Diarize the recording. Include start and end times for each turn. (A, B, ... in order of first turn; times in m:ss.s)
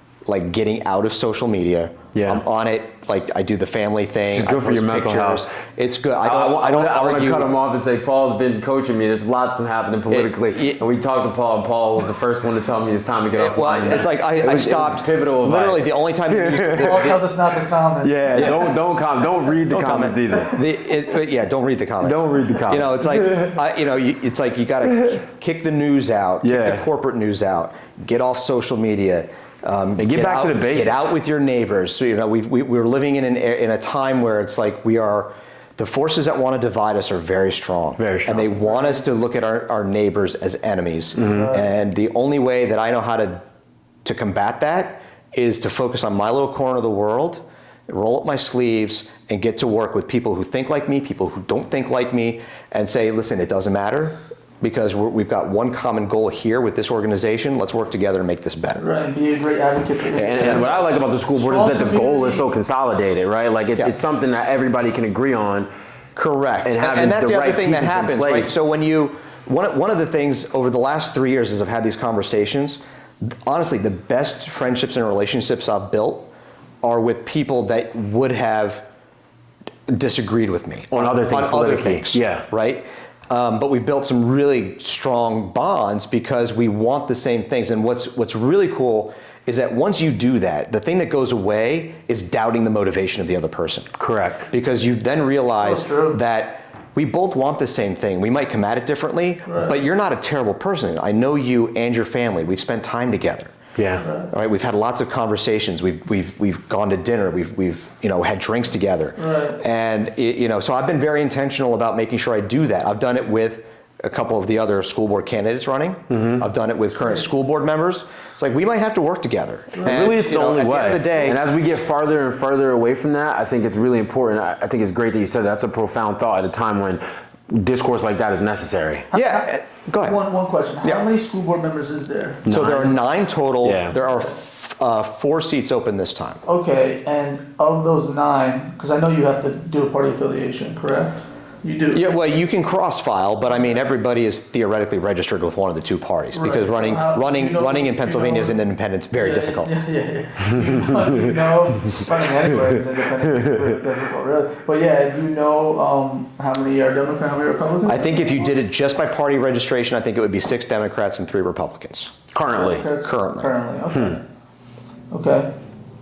0:00.3-0:07.5 A
0:02.1-0:02.4 B
0:04.3-0:05.4 B
0:06.2-0:17.1 B
0:10.1-0:10.8 A
0:13.4-0:17.2 A
0:16.7-0:18.7 C
0:18.0-0:20.5 B
0:18.3-0:18.6 A
0:19.7-0:43.4 A
0:22.0-0:23.6 B
0:26.4-0:26.9 B
0:30.0-0:31.2 B
0:38.0-0:38.5 B
0:38.5-0:39.0 C
0:41.2-0:41.5 B
0:41.3-0:41.6 C
0:44.0-0:58.8 A
0:58.8-1:02.4 C
1:00.1-1:05.7 B
1:00.4-1:00.7 A
1:06.2-1:16.3 A
1:06.6-1:08.6 B
1:16.8-1:18.8 A
1:19.9-1:33.9 A
1:20.9-1:22.4 B
1:34.0-1:34.5 B
1:34.5-1:43.5 A
1:35.6-1:36.2 C
1:39.5-1:39.7 C
1:43.8-1:44.0 B
1:44.0-1:44.3 C
1:44.3-2:01.4 A
1:49.2-1:49.6 C
1:56.1-1:56.4 B
1:59.8-2:09.1 B
2:09.1-2:12.4 C
2:09.1-2:10.2 A
2:12.4-2:13.0 B
2:12.4-2:16.4 A
2:13.6-2:14.0 B
2:16.4-2:22.2 C
2:21.9-2:29.7 A
2:26.3-2:28.6 C
2:29.2-2:38.4 C
2:30.5-2:31.4 B
2:37.8-2:42.3 A
2:42.3-2:42.8 B
2:42.5-2:44.2 C
2:42.9-2:43.5 A
2:43.9-2:44.2 B
2:45.1-2:45.5 C